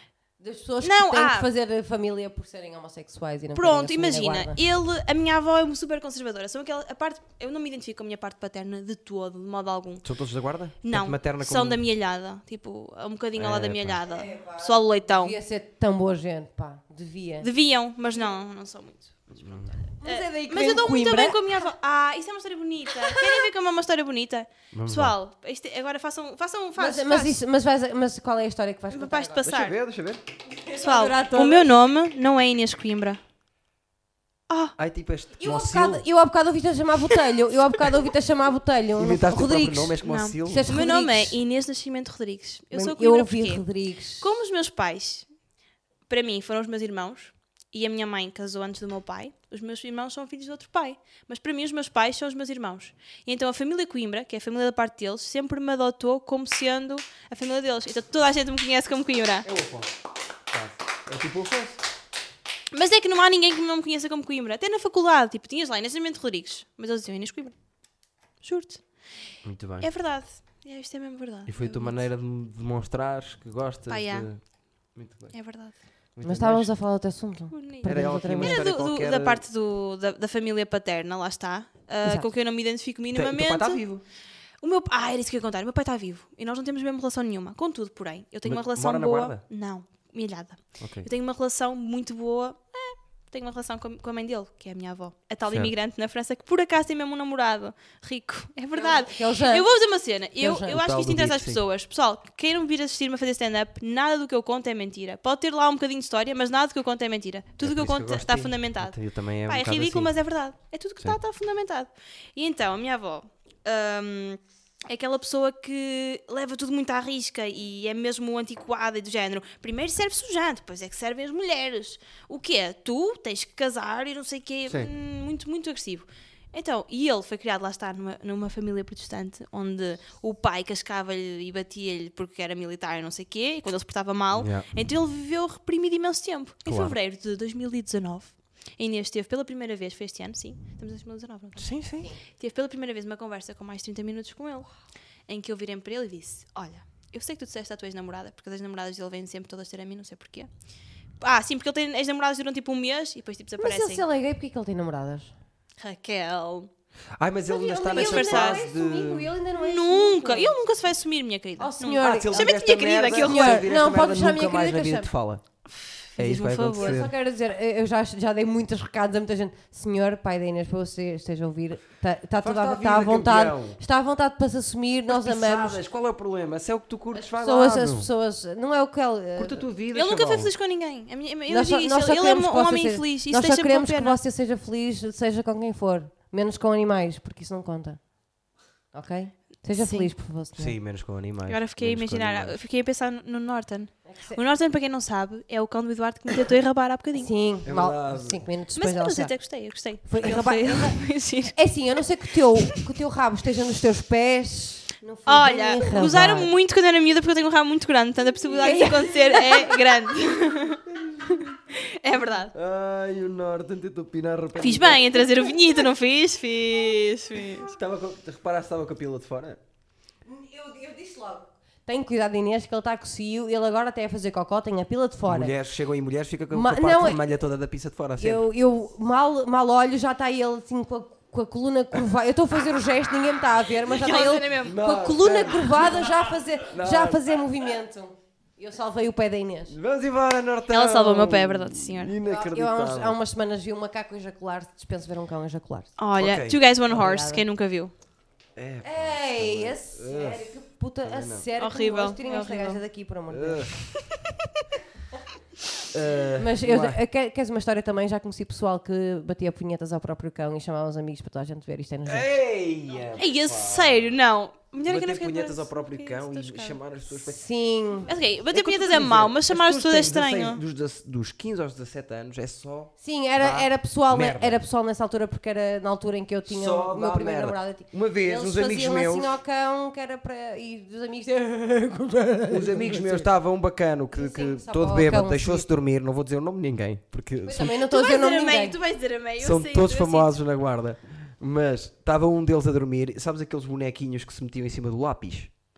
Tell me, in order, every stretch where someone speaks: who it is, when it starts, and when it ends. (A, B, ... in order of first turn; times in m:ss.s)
0:00.4-0:04.6 A
0:00.8-0:01.5 B
0:03.5-0:10.0 B
0:10.0-0:11.8 C
0:10.8-0:15.4 B
0:13.4-0:14.0 C
0:14.0-0:17.5 A
0:17.4-0:19.3 B
0:19.3-0:19.8 C
0:20.0-0:21.7 A
0:20.0-0:27.4 B
0:23.0-0:23.3 A
0:24.7-0:25.2 C
0:26.8-0:29.5 A
0:28.9-0:29.8 B
0:29.4-0:30.2 C
0:30.6-0:31.7 A
0:30.7-0:33.2 B
0:34.5-0:34.8 B
0:34.8-0:36.0 C
0:35.4-0:41.4 A
0:39.0-0:40.7 C
0:40.0-0:43.6 B
0:42.7-0:44.3 A
0:44.2-0:45.3 B
0:46.1-0:59.5 B
0:59.4-0:59.9 C
1:00.5-1:01.8 C
1:02.7-1:07.6 B
1:08.4-1:08.8 B
1:09.4-1:09.9 C
1:09.8-1:12.0 B
1:11.5-1:15.4 C
1:13.9-1:14.3 B
1:15.3-1:15.8 B
1:16.2-1:16.7 C
1:16.2-1:18.6 A
1:17.5-1:23.8 B
1:17.8-1:19.4 C
1:23.1-1:24.0 C
1:24.6-2:21.7 B
1:28.4-1:29.4 C
1:30.8-1:31.1 C
1:35.5-1:35.7 C
1:38.8-1:39.7 A
1:40.4-1:40.8 A
1:40.6-1:41.6 C
1:47.6-1:50.2 C
2:14.3-2:14.6 C
2:16.7-2:17.0 C
2:21.6-2:22.1 C
2:22.3-2:24.7 B
2:25.3-2:30.5 B
2:31.2-2:34.0 B
2:33.6-2:35.3 A
2:35.8-2:36.7 B
2:37.2-2:39.3 C
2:37.5-2:40.6 A
2:37.9-2:38.6 B
2:39.6-2:43.7 B
2:41.6-2:42.5 A
2:42.0-2:45.4 C
2:43.1-2:45.1 A
2:45.7-2:47.1 B
2:46.2-2:47.1 C
2:46.7-2:55.8 A
2:52.4-2:53.8 C
2:55.1-2:58.1 C
2:57.1-2:59.6 A
2:59.4-3:00.5 C
2:59.9-3:04.2 B
3:01.5-3:08.1 A
3:08.9-3:10.8 A
3:09.8-3:10.1 B
3:10.6-3:12.6 C
3:11.5-3:17.3 B
3:14.0-3:14.4 A
3:17.2-3:26.5 A
3:17.7-3:18.4 C
3:18.8-3:21.6 B
3:25.3-3:32.5 B
3:28.6-3:29.8 A
3:32.5-3:35.2 C
3:34.6-3:37.7 B
3:37.6-3:39.6 C
3:40.3-3:45.5 A
3:45.3-3:48.4 C
3:46.5-3:47.2 A
3:48.2-3:59.8 A
3:53.9-3:54.9 B
3:54.6-3:56.1 C
3:56.7-3:57.3 C
3:59.7-4:03.2 C
4:00.7-4:02.2 B
4:02.2-4:05.9 A
4:06.0-4:07.9 B
4:06.2-4:06.6 C
4:06.9-4:07.4 A
4:08.6-4:11.4 C
4:08.8-4:13.7 A
4:11.6-4:12.8 B
4:13.3-4:13.8 C
4:15.9-4:17.0 C
4:16.4-4:22.3 A
4:22.1-4:24.2 C
4:23.2-4:26.8 B
4:24.8-4:27.4 C
4:27.3-4:28.1 A
4:28.0-4:30.6 B
4:28.5-4:34.6 C
4:33.0-4:43.3 A
4:36.5-4:39.4 C
4:42.5-4:47.7 C
4:44.1-4:45.7 A
4:47.4-4:48.8 A
4:47.8-4:50.3 B
4:49.4-4:55.5 C